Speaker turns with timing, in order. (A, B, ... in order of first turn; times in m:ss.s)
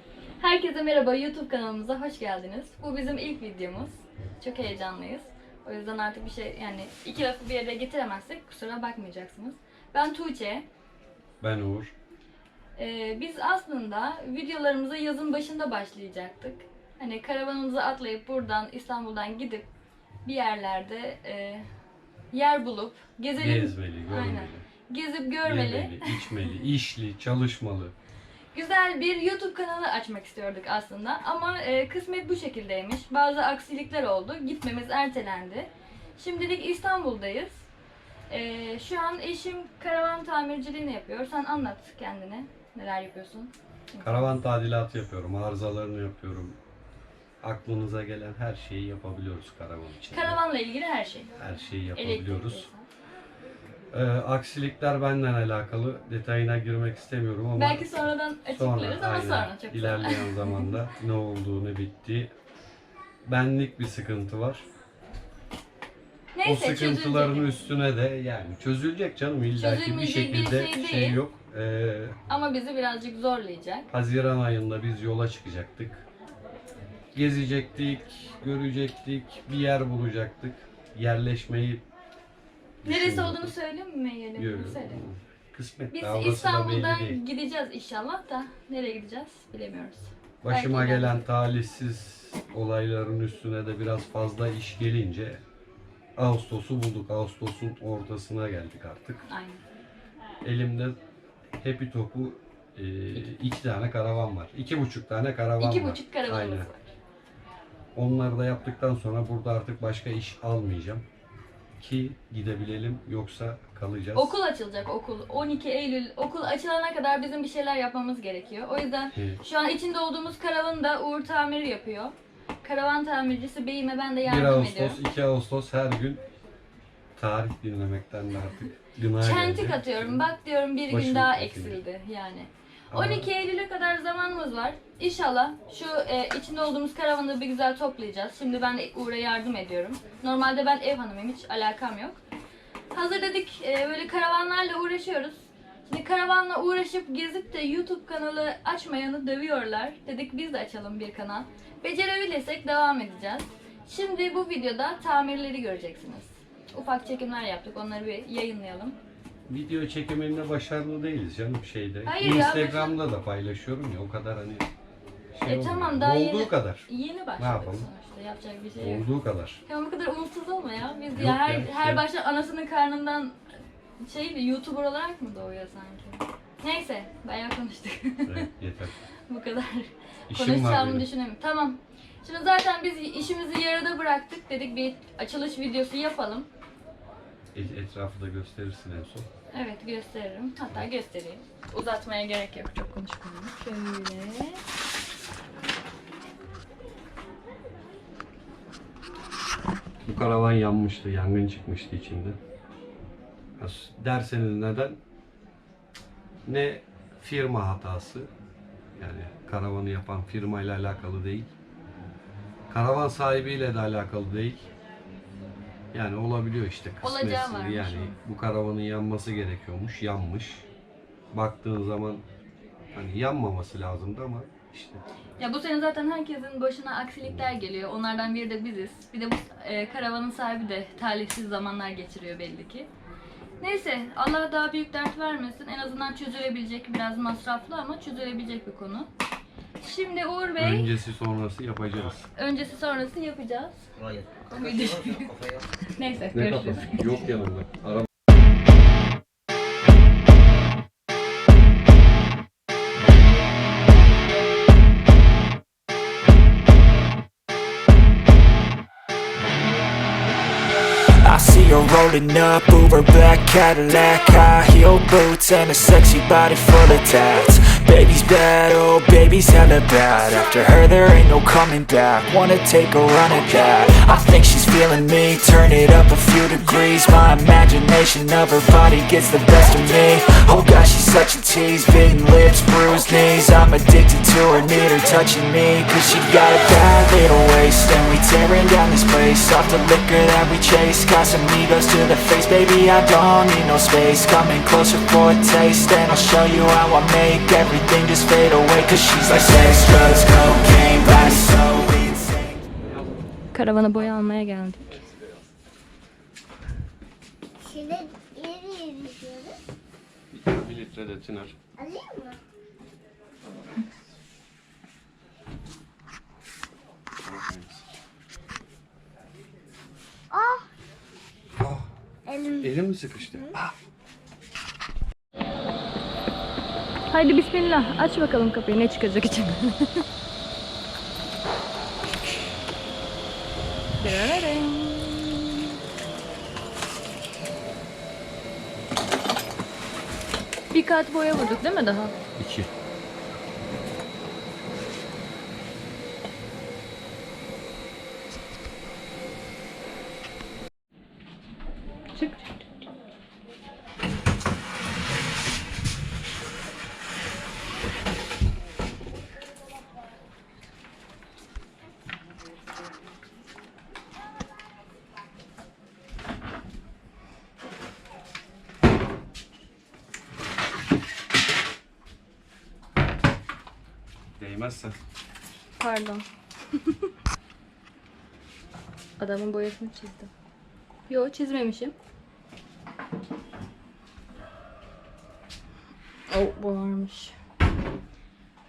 0:00.4-0:10.7 A
0:11.4-0:11.9 B
0:12.8-0:19.7 A
0:20.2-0:21.6 A
0:22.3-0:26.4 A
0:23.4-0:24.6 B
0:25.4-0:27.9 B
0:28.5-0:37.6 A
0:38.3-0:44.3 A
0:44.0-0:46.6 B
0:47.4-0:50.4 B
0:50.1-0:51.3 A
0:51.4-0:52.7 B
0:51.9-0:52.8 A
0:53.9-1:02.3 B
0:57.6-1:00.7 A
1:03.2-1:04.6 B
1:06.3-1:07.5 A
1:06.4-1:12.2 B
1:09.6-1:11.2 A
1:12.3-1:13.9 A
1:13.9-1:16.0 B
1:17.1-1:21.8 B
1:22.8-1:23.5 B
1:22.8-1:25.0 A
1:24.4-1:27.2 B
1:25.9-1:31.2 A
1:30.4-1:35.4 B
1:36.2-1:39.2 B
1:39.2-1:39.6 A
1:40.4-1:41.0 B
1:41.6-1:46.7 B
1:45.6-1:46.9 A
1:47.9-1:51.0 B
1:51.8-1:54.4 B
1:54.1-2:05.0 A
1:59.1-1:59.4 B
2:04.2-2:06.2 B
2:07.2-2:10.2 B
2:09.2-2:22.2 A
2:10.9-2:11.8 B
2:12.9-2:13.3 B
2:22.9-2:39.0 A
2:39.5-2:44.7 B
2:42.0-2:43.0 A
2:45.3-2:46.9 B
2:45.4-2:49.1 A
2:47.4-2:47.9 B
2:48.8-2:49.6 B
2:49.6-2:53.4 A
2:51.1-2:52.0 B
2:54.0-2:58.5 A
2:58.2-2:58.9 B
2:59.3-3:06.5 A
3:00.3-3:01.1 B
3:07.5-3:09.3 B
3:09.5-3:14.6 A
3:20.0-3:22.4 B
3:23.6-3:25.0 B
3:26.4-3:28.3 B
3:29.0-3:31.5 B
3:32.7-3:34.7 B
3:35.9-3:40.6 B
3:37.0-3:38.2 A
3:41.3-3:42.2 B
3:42.9-3:45.0 B
3:45.4-3:52.9 A
3:47.2-3:47.5 B
3:53.6-3:59.1 A
3:59.8-4:00.9 A
4:00.6-4:02.3 B
4:02.3-4:07.2 A
4:06.3-4:08.1 B
4:21.2-5:02.6 C
5:03.5-5:05.0 A
5:07.6-5:09.6 D
5:10.3-5:11.6 B
5:11.8-5:12.4 D
5:17.2-5:17.8 B
5:20.3-5:20.7 D
5:21.6-5:21.9 B
5:22.3-5:22.7 D
5:22.6-5:23.7 B
5:27.1-5:30.0 A
5:34.0-5:35.7 A
5:40.7-5:42.1 A
5:42.4-5:42.7 B
5:52.1-5:52.5 A
6:14.4-6:15.0 B
6:15.8-6:17.1 A
6:19.2-6:20.3 A
6:21.1-6:21.9 A
6:26.3-6:27.3 A